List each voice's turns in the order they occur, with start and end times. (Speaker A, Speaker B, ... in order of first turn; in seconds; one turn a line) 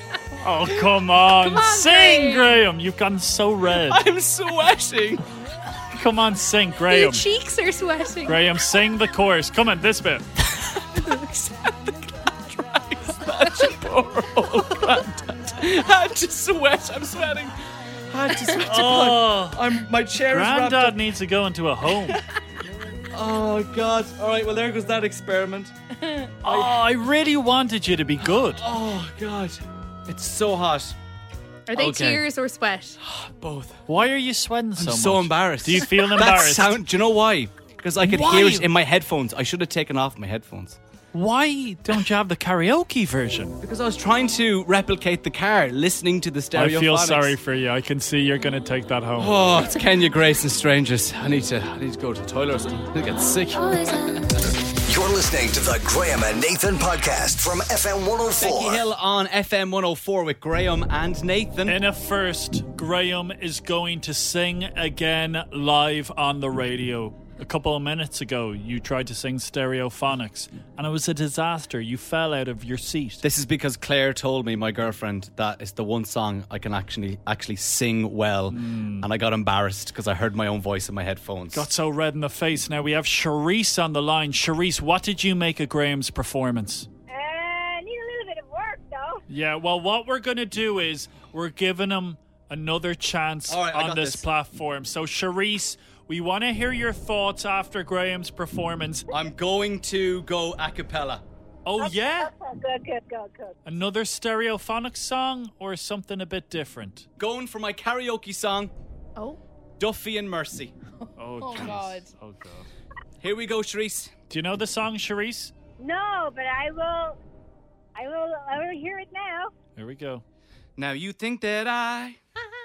Speaker A: 0.4-4.0
Speaker B: 1.4-2.6
Speaker C: 3.9-5.2
Speaker A: 5.9-7.2
Speaker B: 6.9-8.6
Speaker A: 8.2-10.2
Speaker C: 11.5-11.8
Speaker C: 12.5-21.0
Speaker A: 18.6-19.6
Speaker A: 20.3-22.2
Speaker C: 23.1-25.7
Speaker A: 26.4-28.6
Speaker C: 26.4-26.8
Speaker C: 28.4-30.9
Speaker B: 31.7-33.0
Speaker C: 31.7-32.2
Speaker C: 33.0-33.8
Speaker A: 33.9-36.8
Speaker C: 34.8-40.8
Speaker A: 38.0-38.7
Speaker A: 41.1-43.6
Speaker C: 43.6-47.4
Speaker A: 46.5-49.4
Speaker C: 49.2-53.7
Speaker D: 54.9-58.9
Speaker C: 58.4-61.8
Speaker A: 61.6-73.2
Speaker C: 73.2-81.7
Speaker A: 78.5-79.1
Speaker A: 81.5-86.9
Speaker E: 87.1-89.2
Speaker A: 89.3-99.0
Speaker C: 93.5-94.2
Speaker C: 99.1-101.2
Speaker A: 101.6-102.3
Speaker E: 101.8-103.6
Speaker A: 103.6-107.1
Speaker C: 107.2-108.7
Speaker C: 109.8-110.7
Speaker B: 111.0-112.1
Speaker A: 111.2-112.7
Speaker C: 113.2-114.1
Speaker A: 114.3-115.5
Speaker E: 115.8-117.2
Speaker E: 118.0-119.5
Speaker A: 119.8-120.2
Speaker C: 120.8-122.2